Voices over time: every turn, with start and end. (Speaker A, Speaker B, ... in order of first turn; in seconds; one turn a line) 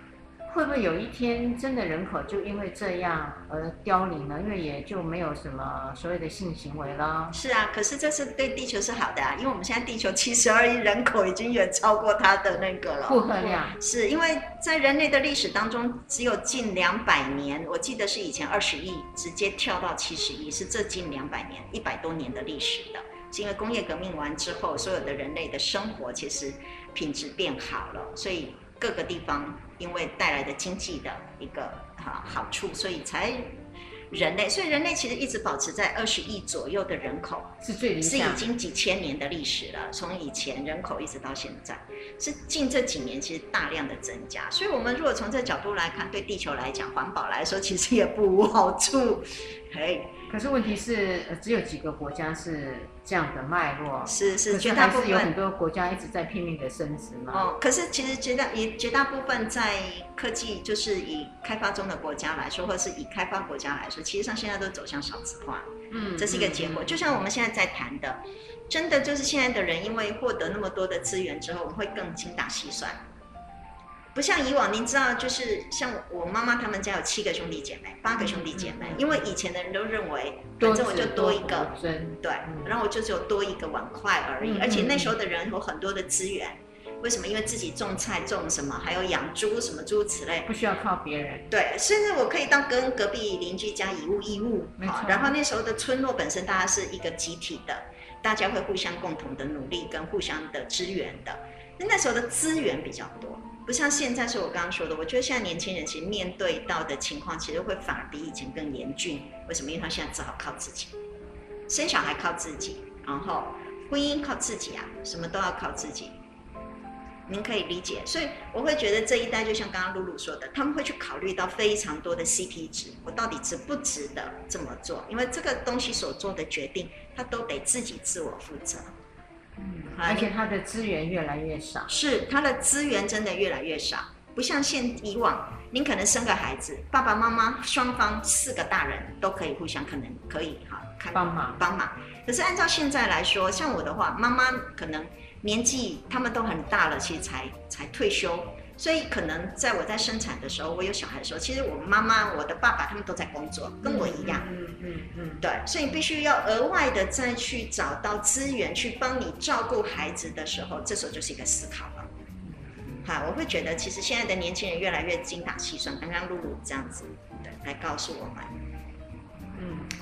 Speaker A: 0.5-7.4
Speaker B: 7.3-50.1
Speaker A: 13.1-13.8
Speaker A: 37.6-38.5
Speaker A: 50.3-57.5
Speaker B: 54.1-55.3
Speaker B: 57.3-73.0
Speaker A: 65.9-67.0
Speaker B: 74.1-90.5
Speaker A: 78.2-79.2
Speaker A: 80.6-82.8
Speaker A: 84.4-85.2
Speaker A: 90.5-91.5
Speaker B: 91.5-111.0
Speaker A: 94.8-95.4
Speaker B: 111.7-116.2
Speaker B: 117.3-128.9
Speaker A: 129.6-131.9
Speaker B: 129.9-130.3
Speaker B: 131.9-154.5
Speaker A: 141.1-141.6
Speaker A: 153.8-155.4
Speaker B: 155.4-162.1
Speaker B: 163.0-168.5
Speaker A: 169.6-169.9